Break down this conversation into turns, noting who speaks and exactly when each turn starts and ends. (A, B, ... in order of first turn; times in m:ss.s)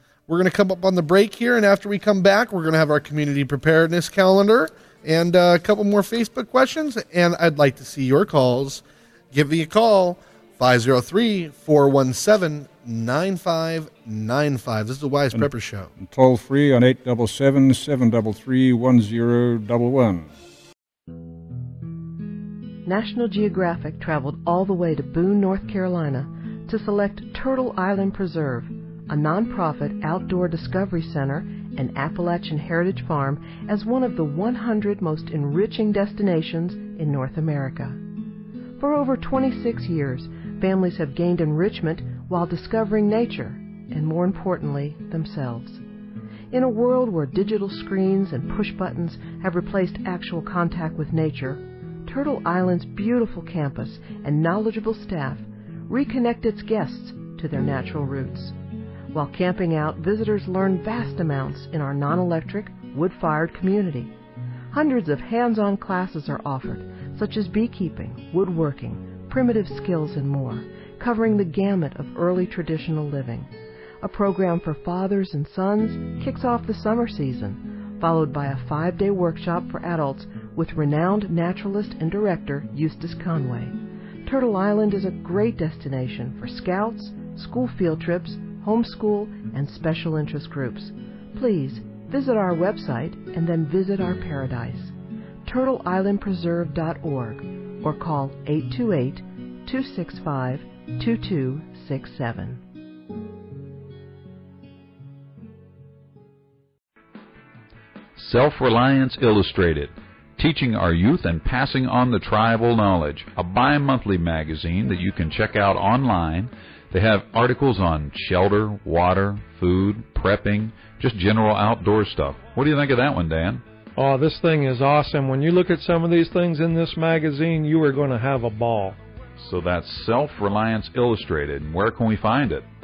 0:00.3-0:15.9 A
0:15.3-0:20.3 B
0:22.9-0:38.0 C
0:38.8-0:45.8 C
0:46.5-0:58.6 C
0:59.1-1:04.1 C
1:04.7-1:13.5 C
1:14.0-1:34.9 C
1:35.5-1:42.6 C
1:48.2-2:03.6 D
2:04.0-2:09.0 E
2:09.4-2:12.7 D